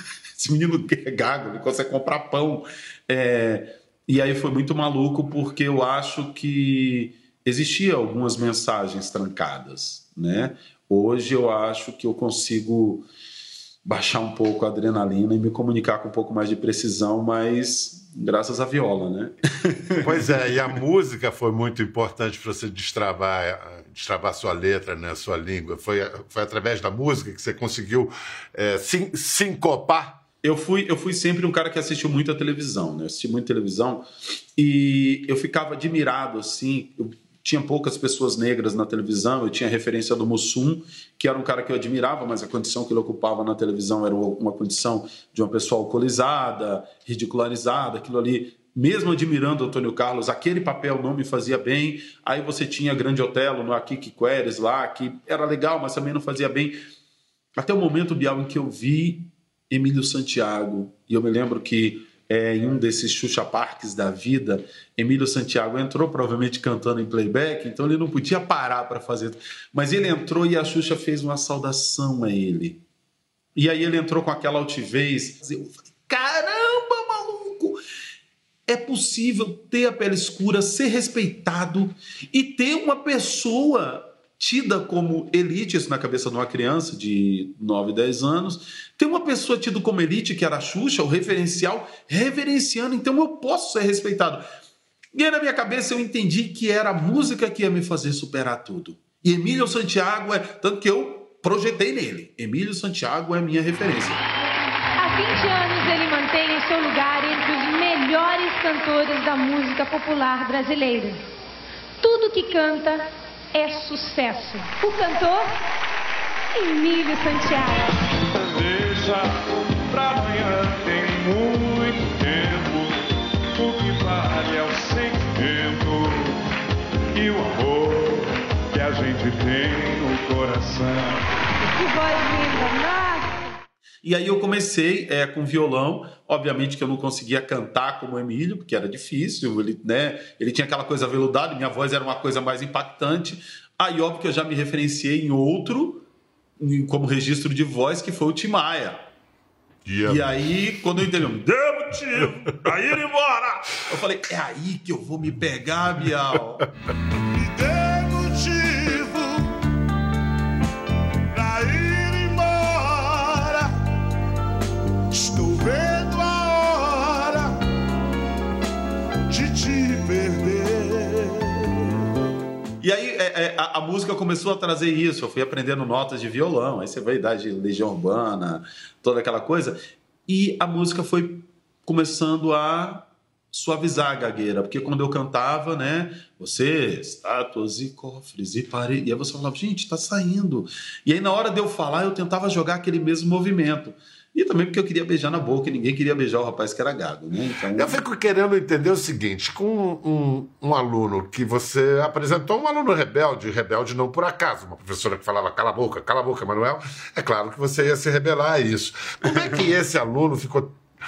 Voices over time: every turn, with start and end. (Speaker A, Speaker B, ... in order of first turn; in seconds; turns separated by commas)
Speaker A: 0.4-13.1, Speaker A: 13.8-20.5, Speaker B: 20.0-30.2, Speaker A: 30.4-56.8, Speaker A: 57.6-72.8, Speaker A: 73.6-77.8, Speaker A: 78.7-94.4, Speaker A: 95.2-104.2, Speaker C: 105.0-111.2, Speaker C: 112.0-115.6, Speaker C: 116.5-118.0, Speaker D: 118.3-126.5, Speaker D: 127.1-131.2, Speaker C: 131.7-133.5, Speaker A: 134.0-146.1, Speaker A: 146.6-149.0, Speaker B: 149.9-150.3, Speaker A: 150.1-156.7, Speaker A: 157.4-158.3, Speaker B: 161.3-162.4, Speaker A: 162.9-163.6, Speaker B: 165.2-166.5, Speaker B: 169.3-171.3, Speaker A: 172.8-198.0, Speaker B: 197.8-210.8